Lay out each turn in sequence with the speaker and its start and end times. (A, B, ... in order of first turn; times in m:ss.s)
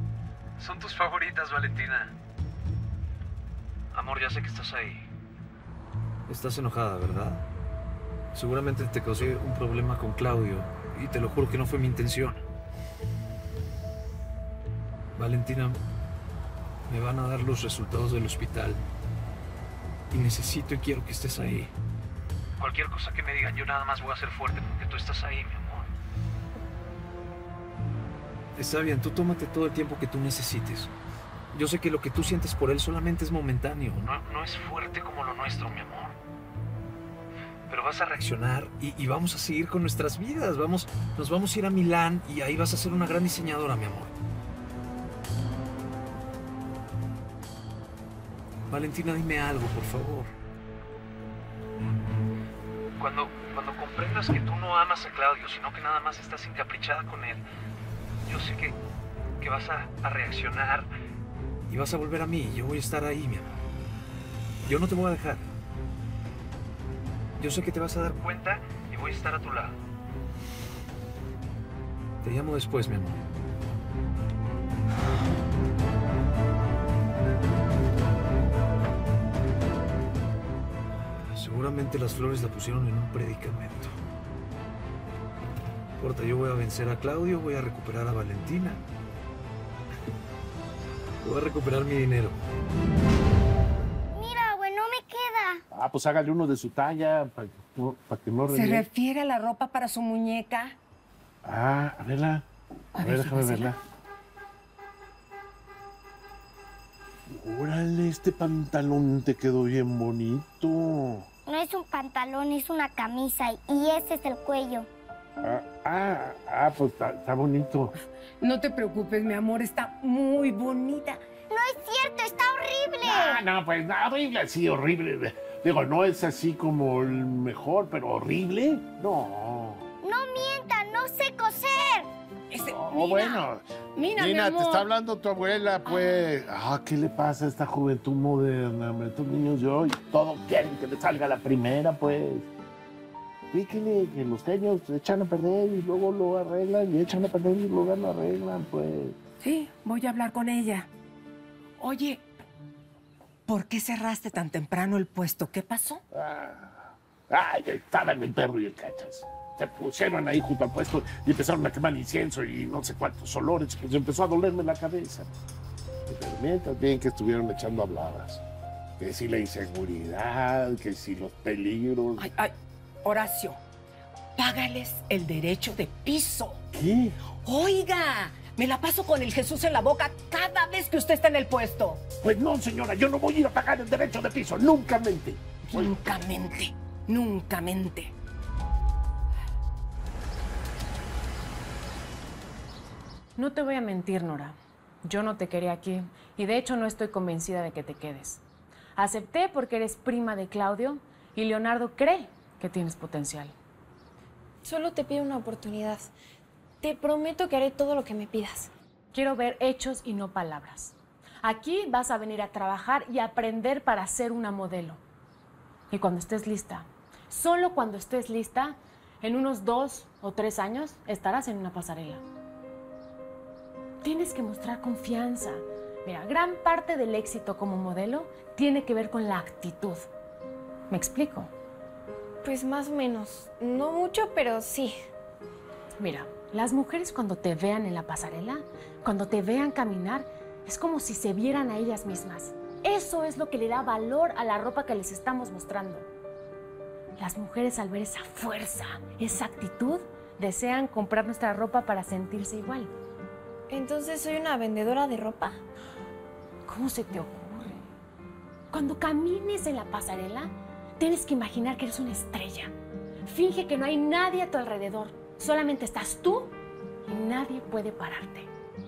0:00.6-0:02.1 A
0:03.9-0:05.0 A
0:06.3-0:07.4 A
0:08.3-0:12.4 A
0:15.1-0:15.8 A
0:16.9-0:18.8 A
0:20.1-0:21.7 A
0:22.6-0:25.9 A
0:28.6-0:30.9 A
0:31.5-0:36.2 A
0:37.7-0:44.1 A
0:48.7-0:50.3 A
0:53.0-0:57.4 A
0:58.2-0:58.8 A
0:59.4-1:00.9 A
1:01.7-1:03.6 A
1:04.6-1:05.5 A
1:07.4-1:09.8 A
1:12.2-1:13.2 A
1:21.3-1:24.0 A
1:26.0-1:28.8 A
1:31.2-1:32.4 A
1:34.1-1:35.6 B
1:35.7-1:38.8 C
1:38.5-1:40.8 D
1:41.4-1:42.5 C
1:42.9-1:43.7 D
1:43.0-1:43.8 C
1:47.3-1:51.2 C
1:51.5-1:54.9 B
1:55.4-1:57.9 C
1:58.4-2:01.2 D
2:01.5-2:03.4 B
2:03.0-2:09.9 C
2:10.0-2:12.1 B
2:12.5-2:14.9 D
2:12.7-2:22.5 C
2:15.8-2:16.2 D
2:23.5-2:29.2 C
2:29.4-2:30.9 D
2:31.8-2:32.2 D
2:33.4-2:36.0 D
2:36.1-2:45.3 C
2:46.1-2:48.4 C
2:49.0-2:52.3 C
2:52.2-2:53.6 D
2:54.4-2:56.6 D
2:56.7-2:57.2 C
2:57.4-3:02.0 D
3:02.2-3:06.2 C
3:05.7-3:08.1 D
3:13.4-3:18.4 E
3:19.0-3:23.5 E
3:24.6-3:26.1 F
3:26.8-3:28.7 F
3:29.1-3:35.0 E
3:35.9-3:42.2 E
3:44.0-3:50.1 E
3:50.9-3:51.5 E
3:52.4-3:55.0 F
3:56.0-4:06.1 E
4:07.2-4:12.9 E
4:13.7-4:15.6 F
4:16.6-4:17.8 E
4:18.7-4:22.7 E
4:23.2-4:28.5 E